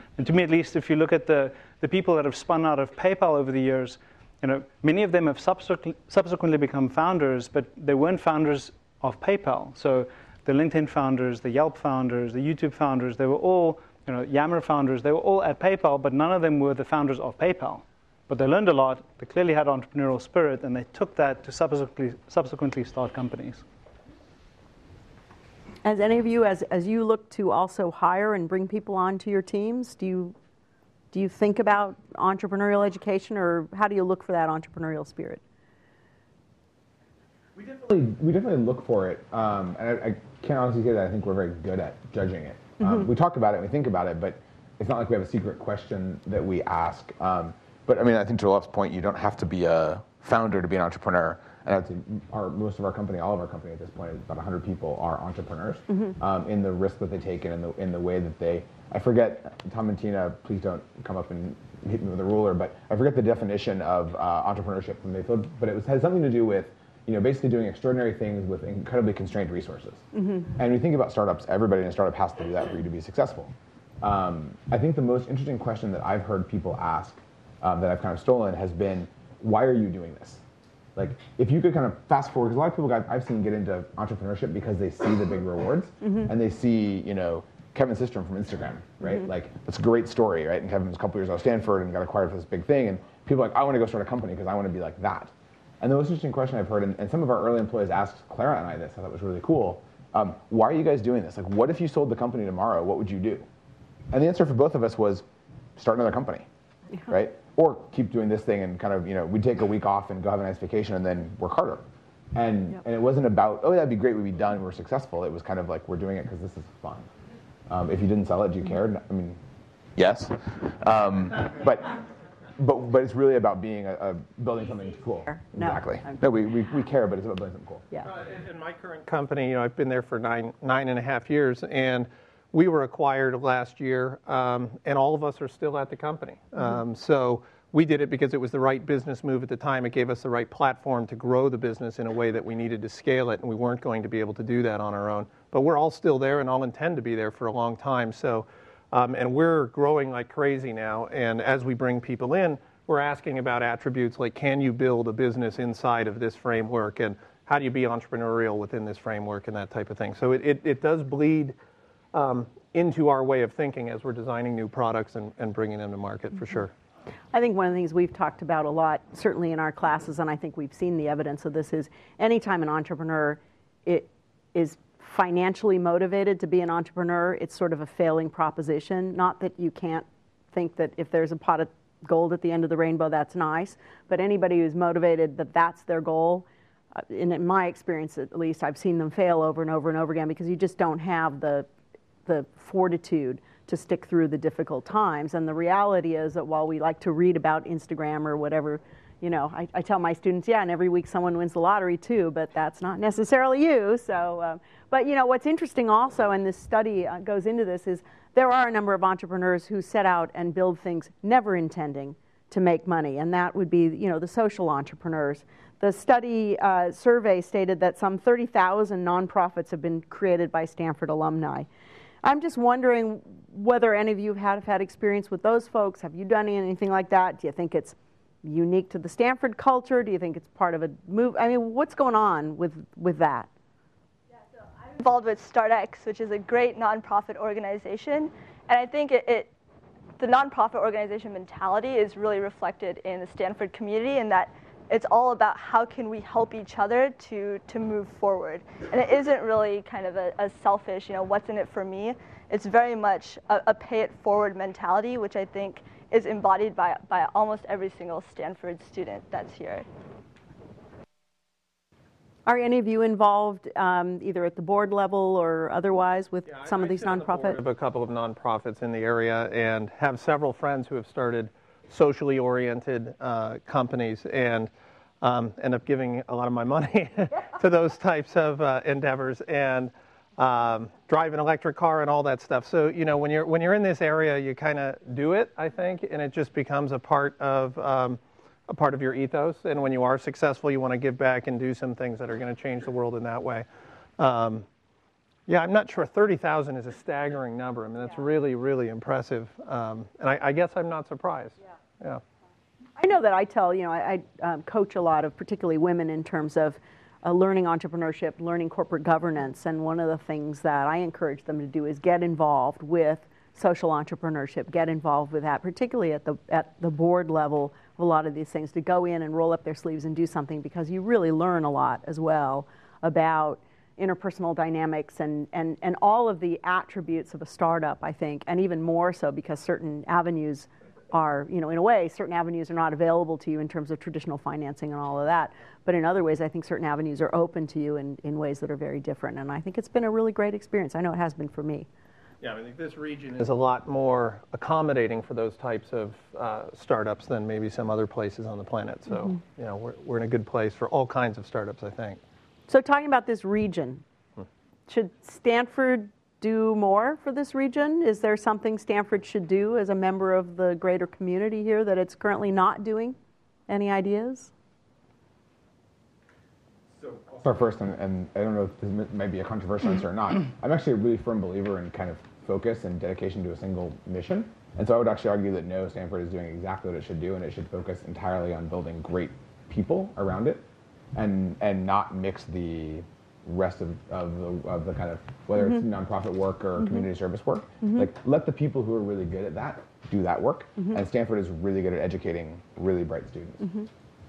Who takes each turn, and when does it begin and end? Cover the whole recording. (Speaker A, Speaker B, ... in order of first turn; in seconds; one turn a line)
Speaker A: 0.2-23.6
Speaker B: 25.9-30.4
Speaker B: 31.1-35.4
Speaker C: 37.5-80.4
Speaker B: 70.1-70.5
Speaker C: 81.0-103.5
Speaker C: 104.1-105.2
Speaker C: 105.8-106.5
Speaker C: 107.1-117.1
Speaker C: 117.7-119.4
Speaker C: 120.0-122.0
Speaker C: 122.6-127.9
Speaker B: 125.3-126.2
Speaker D: 128.0-161.6
Speaker D: 162.1-166.7
Speaker B: 167.3-191.7
Speaker B: 192.3-221.7
Speaker B: 222.2-233.5
Speaker E: 234.6-239.5
Speaker E: 240.2-259.9
Speaker B: 262.5-267.6
Speaker D: 266.4-293.7
Speaker D: 294.2-294.7
Speaker D: 295.5-302.2
Speaker B: 303.0-341.9
Speaker D: 342.4-352.2
Speaker B: 352.7-354.0
Speaker B: 354.9-363.2
Speaker B: 363.7-364.5
Speaker C: 367.3-380.6
Speaker C: 381.1-393.8